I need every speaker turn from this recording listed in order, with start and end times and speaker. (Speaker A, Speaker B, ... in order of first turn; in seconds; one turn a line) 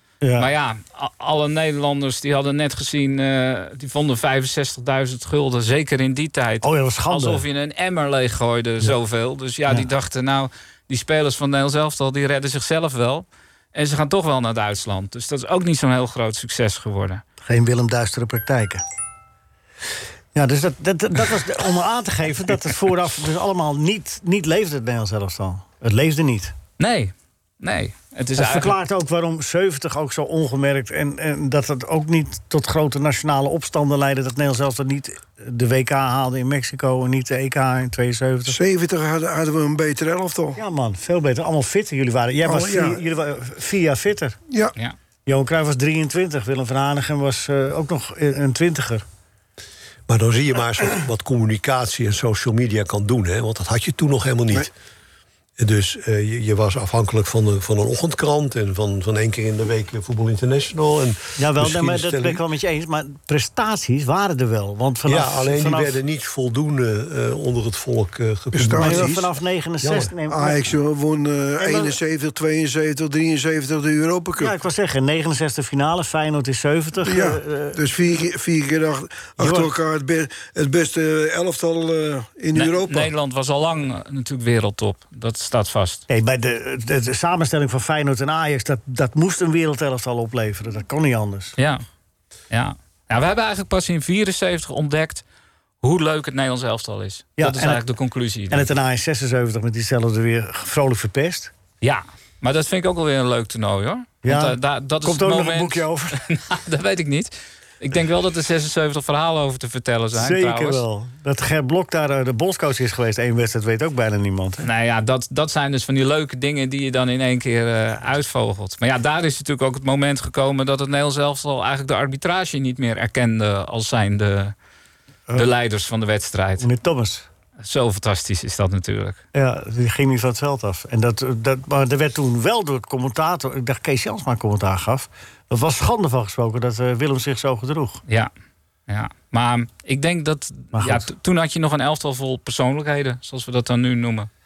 Speaker A: 0.2-0.5
Speaker B: 0.4-17.2
Speaker A: 6.6-7.5
Speaker A: 17.4-18.8
Speaker A: 20.4-26.5
Speaker B: 26.8-28.8
Speaker A: 28.4-38.6
Speaker C: 38.5-40.6
Speaker A: 40.6-44.4
Speaker C: 42.4-43.0
Speaker A: 45.3-49.0
Speaker D: 50.1-54.7
Speaker D: 55.6-62.4
Speaker A: 61.4-66.0
Speaker D: 65.0-69.1
Speaker C: 68.5-69.3
Speaker A: 68.7-70.6
Speaker D: 69.8-70.1
Speaker C: 70.3-74.6
Speaker A: 71.6-72.0
Speaker A: 74.4-77.8
Speaker C: 77.1-83.1
Speaker A: 79.4-79.7
Speaker B: 82.5-86.0
Speaker A: 86.1-91.6
Speaker B: 92.5-95.2
Speaker B: 95.8-98.7
Speaker A: 97.4-97.8
Speaker A: 98.5-101.5
Speaker B: 101.8-110.8
Speaker A: 104.2-106.2
Speaker A: 110.1-114.7
Speaker B: 114.6-124.5
Speaker B: 125.3-126.7
Speaker A: 126.6-127.2
Speaker B: 127.6-129.2
Speaker A: 129.3-138.0
Speaker B: 138.9-144.3
Speaker A: 140.7-141.1